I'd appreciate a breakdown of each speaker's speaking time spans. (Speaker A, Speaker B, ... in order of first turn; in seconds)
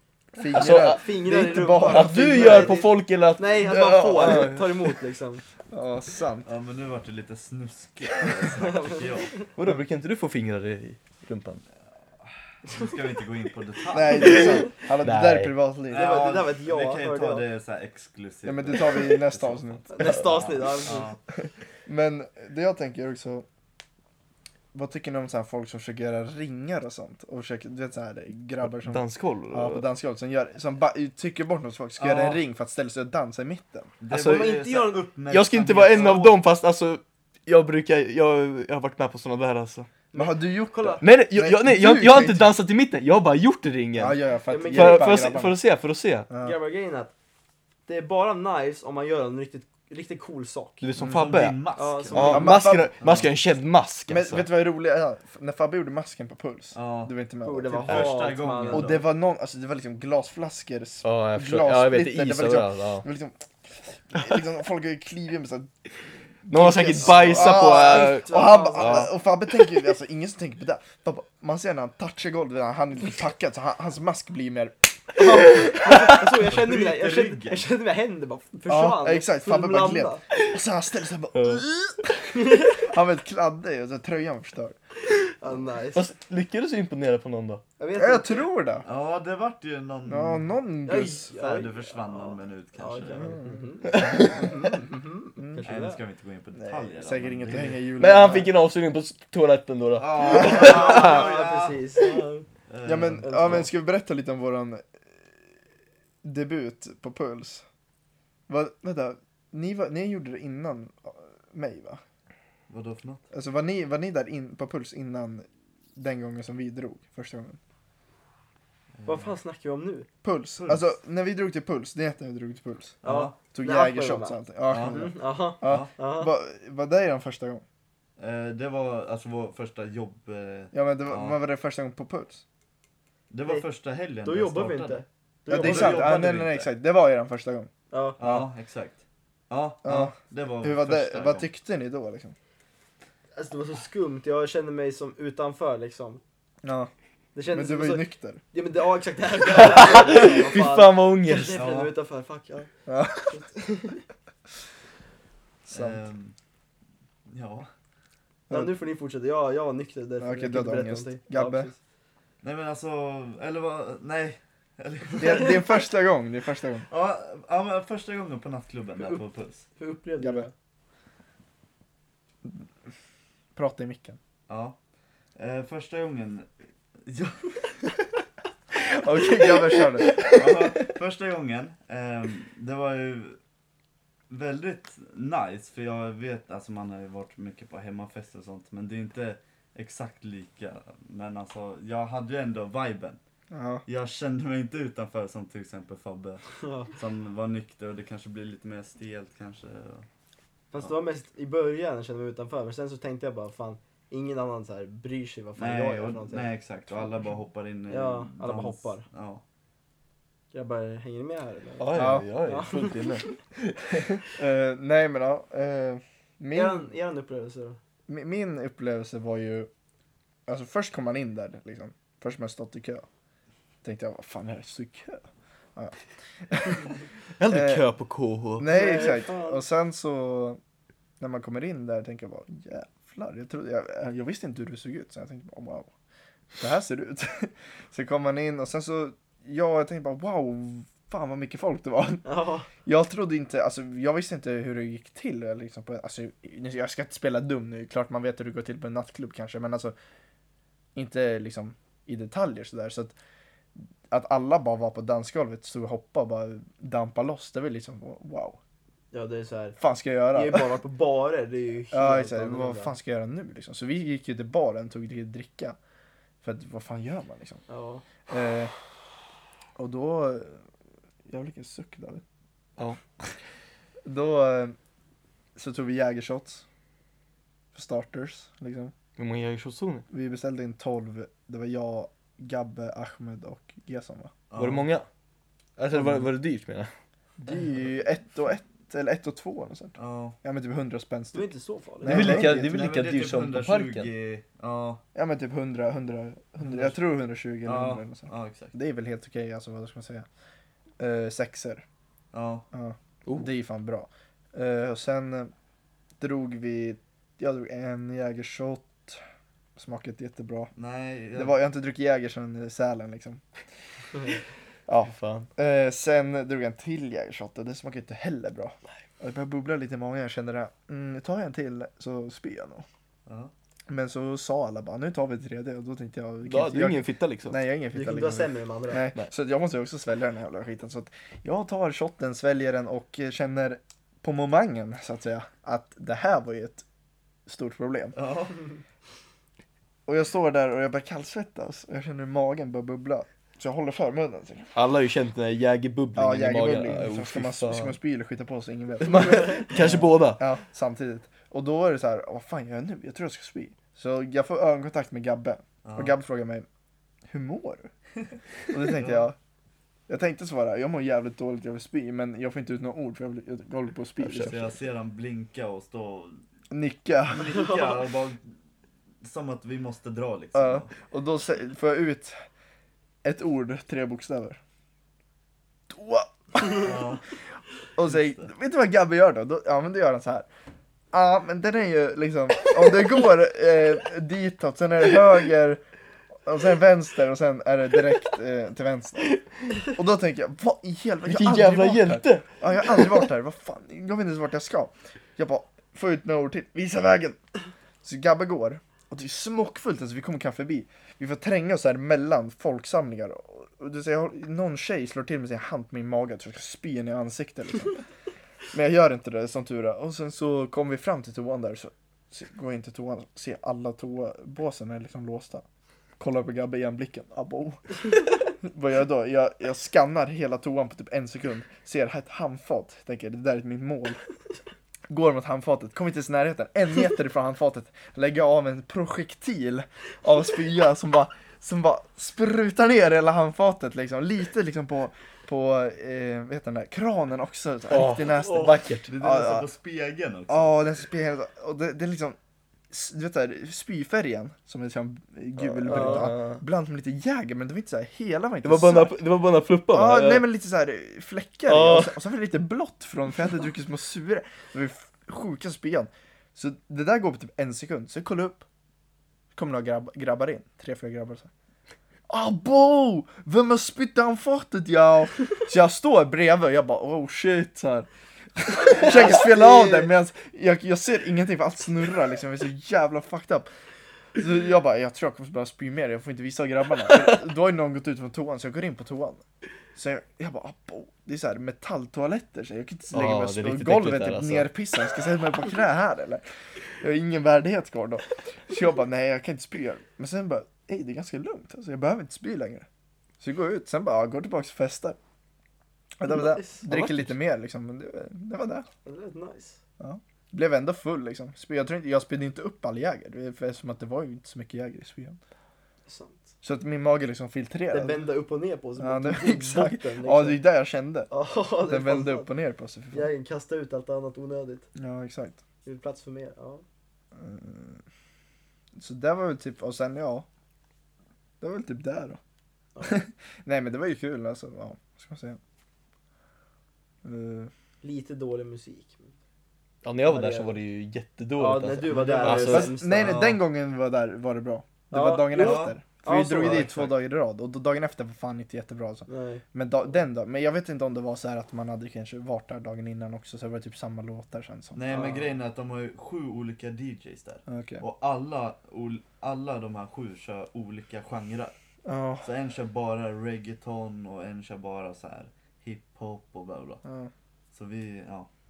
Speaker A: 0.3-2.8, 5.7-6.5, 13.9-16.1, 18.4-20.4, 21.9-23.4, 24.7-34.0, 40.1-42.5, 44.0-45.6, 46.3-46.5, 52.1-52.9, 54.1-65.7, 66.5-75.8, 78.7-84.8, 88.0-88.8, 90.0-91.3, 93.1-93.7, 95.4-95.7, 96.6-98.5, 102.8-104.9, 106.2-107.6, 108.5-112.0, 113.3-117.6, 120.2-123.0, 123.5-127.6, 130.7-132.4, 135.5-138.4, 139.8-142.3, 146.6-146.9, 147.5-148.4, 152.9-153.5, 155.6-156.0, 158.5-158.7, 160.2-161.7, 165.2-166.9, 170.2-170.5, 173.5-174.2, 178.7-180.8, 193.5-193.8, 211.9-212.3, 214.2-216.9, 218.1-219.7, 220.5-223.0, 223.8-225.2, 226.5-226.9, 227.5-227.9, 228.6-230.6, 231.2-235.9, 236.6-242.2, 242.8-249.9, 250.9-253.1, 253.8-258.6, 259.8-260.8, 261.9-265.8, 266.4-267.6, 268.3-268.7, 269.8-270.6, 271.3-272.2, 274.0-274.8, 275.6-276.6, 277.7-278.9, 280.1-284.3, 285.9-286.3, 287.4-291.5, 292.0-292.8, 295.1-300.2, 301.0-301.8, 302.7-305.5, 306.2-309.2, 309.8-310.7, 311.3-313.4, 314.9-322.9, 323.9-336.8, 337.5-338.1, 340.1-344.7, 346.1-356.7, 357.3-357.9, 358.7-359.4, 360.1-364.7, 366.7-367.6, 370.5-372.4, 373.2-374.6, 375.9-377.0, 377.9-380.5, 381.1-385.8, 386.4-397.4, 398.0-408.0, 408.7-415.6, 416.2-424.2, 425.1-439.7, 440.5-442.4, 442.9-449.2, 449.9-458.6, 459.5-461.5, 462.3-473.7, 474.4-479.4, 479.9-486.4, 487.0-492.9, 493.4-495.2, 496.2-498.9, 500.0-505.4, 506.6-508.3, 509.0-511.3, 511.9-513.3, 515.0-515.6, 517.3-518.0, 519.0-520.5, 521.6-522.4, 523.0-525.6, 527.2-527.7, 532.6-545.0, 547.7-548.0, 552.0-552.4, 557.0-557.3
Speaker B: 0.5-1.0, 1.8-5.0, 9.6-11.6, 15.0-15.5, 28.7-29.8, 34.1-34.5, 35.3-39.9, 41.0-44.2, 44.7-46.3, 50.8-51.6, 52.1-54.5, 61.0-63.0, 66.5-69.1, 81.3-81.6, 85.9-87.6, 98.0-101.2, 149.5-151.6, 211.8-214.0, 227.4-228.8, 279.1-280.0, 284.6-285.1, 285.8-286.9, 292.1-294.1, 315.1-315.5, 326.4-327.6, 344.7-348.0, 349.0-350.4, 391.2-393.3, 437.9-439.1, 445.6-446.6, 448.6-450.4, 451.7-452.2, 483.1-484.7, 496.9-497.3, 530.0-532.9
Speaker C: 0.6-5.4, 8.5-9.5, 14.2-14.7, 15.9-17.4, 19.9-21.1, 34.1-35.0, 35.9-36.3, 40.1-41.0, 44.5-45.3, 46.4-47.1, 47.9-50.8, 51.8-52.6, 57.4-58.9, 67.0-69.1, 75.2-80.2, 82.3-82.8, 85.3-86.0, 87.8-88.4, 90.8-96.0, 100.2-102.4, 103.2-103.7, 119.0-120.1, 123.0-126.3, 134.2-136.3, 137.9-138.2, 143.3-146.2, 147.3-152.7, 153.2-154.0, 158.5-161.8, 169.8-170.5, 196.6-196.9, 200.7-206.5, 207.9-209.0, 210.5-213.3, 216.5-217.8, 228.7-229.6, 242.2-242.7, 259.1-259.8, 260.3-262.9, 267.7-268.0, 291.3-292.4, 327.9-329.1, 367.5-368.0, 445.9-446.3, 468.8-470.1, 496.3-496.8, 499.0-499.8, 506.1-506.5, 507.9-510.6, 511.3-512.5, 513.1-514.9, 515.8-516.8, 523.0-523.2, 528.0-529.3, 530.2-530.8, 531.5-533.5, 535.1-537.1, 539.3-539.6, 545.1-545.5
Speaker D: 6.4-9.4, 12.6-14.7, 15.9-21.2, 32.0-32.4, 34.0-36.4, 51.0-53.3, 56.7-57.1, 57.7-59.0, 76.5-77.7, 88.8-90.5, 91.3-93.4, 93.9-94.4, 95.6-97.8, 100.0-103.7, 112.7-113.2, 119.0-119.3, 120.6-120.9, 123.0-123.3, 124.7-125.9, 128.2-131.4, 133.3-136.7, 138.2-141.5, 151.5-151.9, 155.7-156.3, 157.3-157.7, 162.4-165.8, 166.9-169.7, 174.5-174.8, 175.3-176.5, 177.0-177.6, 180.2-183.4, 184.3-193.2, 193.8-200.1, 205.6-209.4, 284.5-284.9, 289.9-290.4, 292.2-295.0, 296.6-296.9, 297.6-298.7, 302.3-302.6, 310.7-311.6, 323.2-323.5, 338.1-338.7, 355.8-356.1, 358.9-359.3, 364.3-366.4, 367.3-368.4, 369.2-370.9, 376.6-377.2, 378.1-378.5, 439.1-440.8, 532.1-533.6, 535.5-536.0, 544.9-551.7, 552.4-557.0, 557.7-558.5